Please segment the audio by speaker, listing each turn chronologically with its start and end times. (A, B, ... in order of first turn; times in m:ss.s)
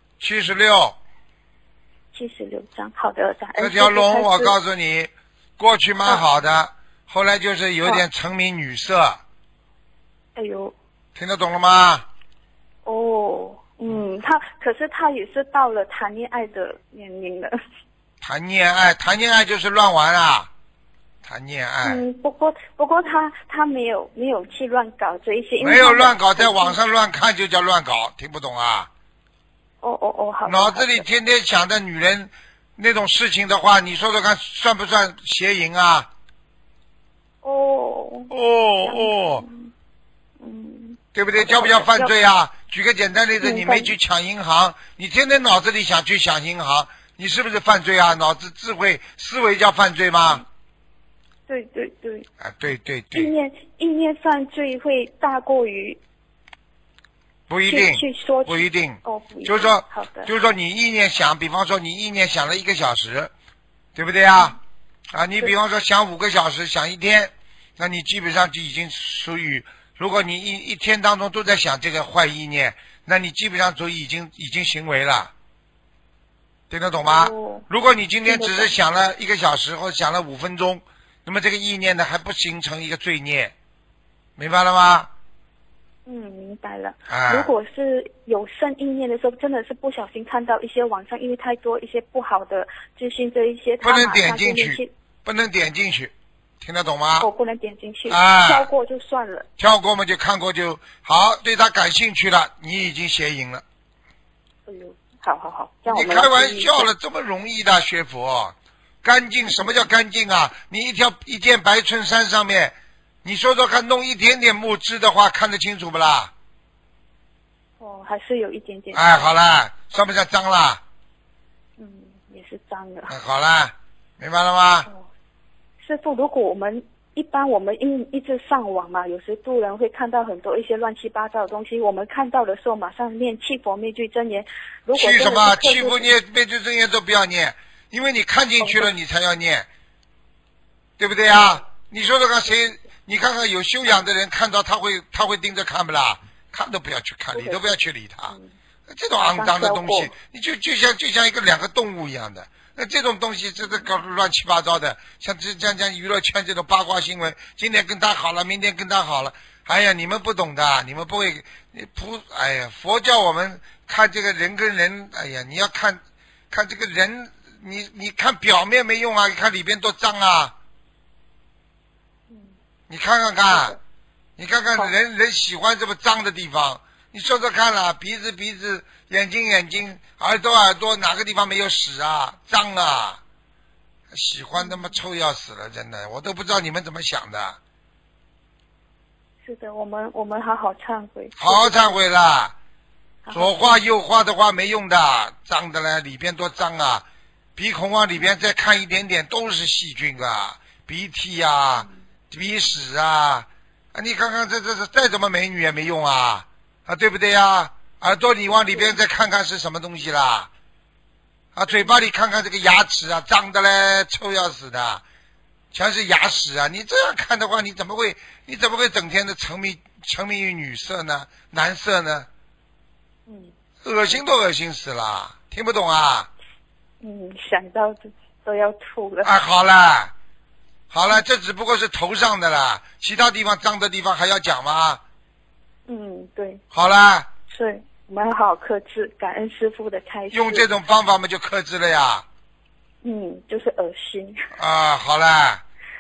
0:00.2-0:01.0 A
0:02.1-0:04.6 B
0:03.6-0:09.2 A
0:10.4-0:10.7 B
0:11.2-0:12.1 A
0:12.8-0:17.6 B
0:18.2-0:20.5 A
0:21.2-0:22.0 A
0:21.8-0:26.8 B
0:25.6-0:28.9 A
0:29.8-0:31.1 B
0:30.5-0:36.1 A
0:37.4-0:38.3 B
0:38.3-0:39.4 A
0:38.8-0:39.7 B
0:40.4-0:42.1 B
0:41.2-0:50.4 A
0:43.4-0:43.9 B
0:51.5-0:52.3 B
0:52.4-0:53.3 A
0:53.1-0:56.0 B
0:57.5-1:03.3 A
0:57.7-1:00.3 B
1:04.0-1:04.6 A
1:05.1-1:15.3 A
1:16.7-1:23.5 A
1:17.0-1:17.7 B
1:18.2-1:18.7 B
1:24.4-1:25.1 A
1:26.1-1:34.9 B
1:27.1-1:27.5 A
1:33.8-1:37.3 A
1:37.2-1:39.5 B
1:38.1-1:38.7 A
1:39.6-1:43.6 A
1:44.7-1:46.9 B
1:45.9-1:56.3 A
1:57.8-1:59.2 B
1:58.9-2:00.8 A
2:01.8-2:03.2 B
2:03.1-2:04.9 A
2:05.8-2:16.1 B
2:14.9-2:19.7 A
2:18.6-2:18.9 B
2:21.0-2:28.4 A
2:27.3-2:27.7 B
2:28.3-2:28.5 B
2:28.9-2:46.0 A
2:29.1-2:30.1 B
2:46.5-2:50.5 A
2:52.9-2:53.8 A
2:54.4-3:03.2 A
3:04.1-3:07.6 A
3:04.6-3:05.0 B
3:09.4-3:12.0 B
3:11.4-3:12.6 A
3:13.3-3:13.8 B
3:13.3-3:17.0 A
3:17.6-3:30.5 A
3:31.6-3:35.0 A
3:35.7-3:42.3 A
3:43.3-3:43.5 B
3:43.8-3:46.3 A
3:47.0-3:49.4 B
3:49.2-3:50.1 A
3:50.9-3:55.0 A
3:55.9-3:56.6 B
3:56.7-3:57.3 A
3:57.5-4:00.7 B
4:00.3-4:02.2 A
4:03.0-4:04.5 B
4:04.6-4:05.6 A